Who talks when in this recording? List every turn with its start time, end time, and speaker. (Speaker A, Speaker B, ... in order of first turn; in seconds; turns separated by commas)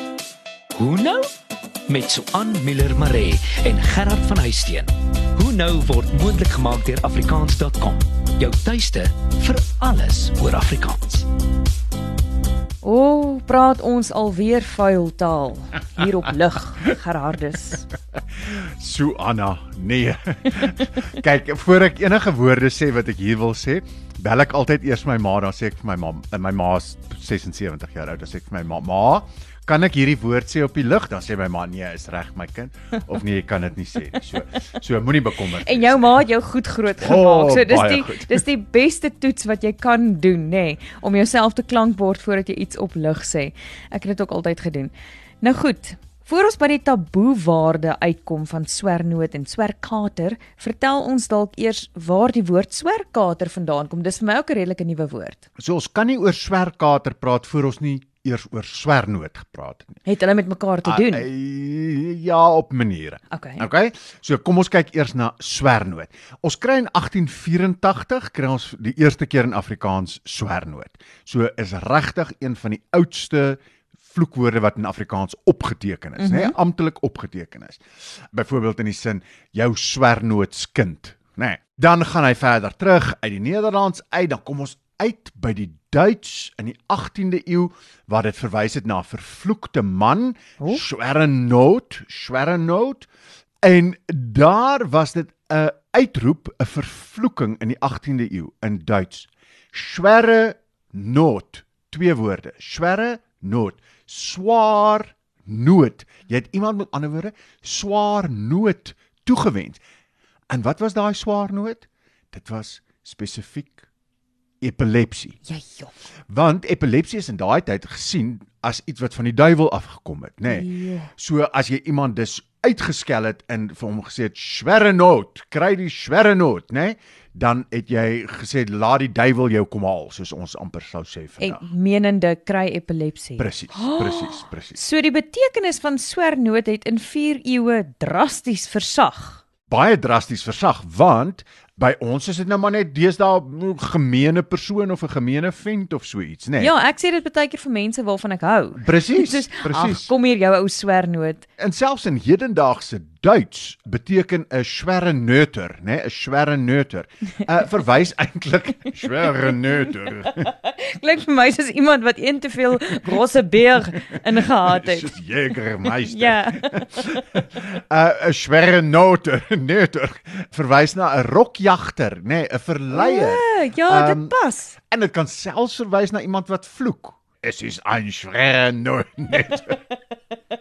Speaker A: 0.8-1.2, Speaker A: 1.9-11.2, Speaker B: 12.8-17.9, Speaker C: 18.5-36.2, Speaker B: 35.6-55.4, Speaker C: 37.0-38.4, Speaker C: 55.6-60.0, Speaker B: 60.0-61.2, Speaker C: 60.8-77.8, Speaker B: 63.3-63.6, Speaker B: 76.2-76.5, Speaker C: 78.3-93.1, Speaker C: 93.6-109.8, Speaker C: 110.5-113.8, Speaker C: 114.6-115.4, Speaker B: 115.5-115.9, Speaker C: 116.3-131.6, Speaker B: 120.5-121.1, Speaker B: 131.4-139.4, Speaker C: 133.4-134.8, Speaker C: 139.7-146.7, Speaker B: 146.6-151.4, Speaker C: 148.8-150.1, Speaker C: 151.6-160.5, Speaker B: 159.1-165.1, Speaker C: 164.7-174.3, Speaker B: 165.8-167.2, Speaker B: 172.9-174.8, Speaker C: 174.9-179.8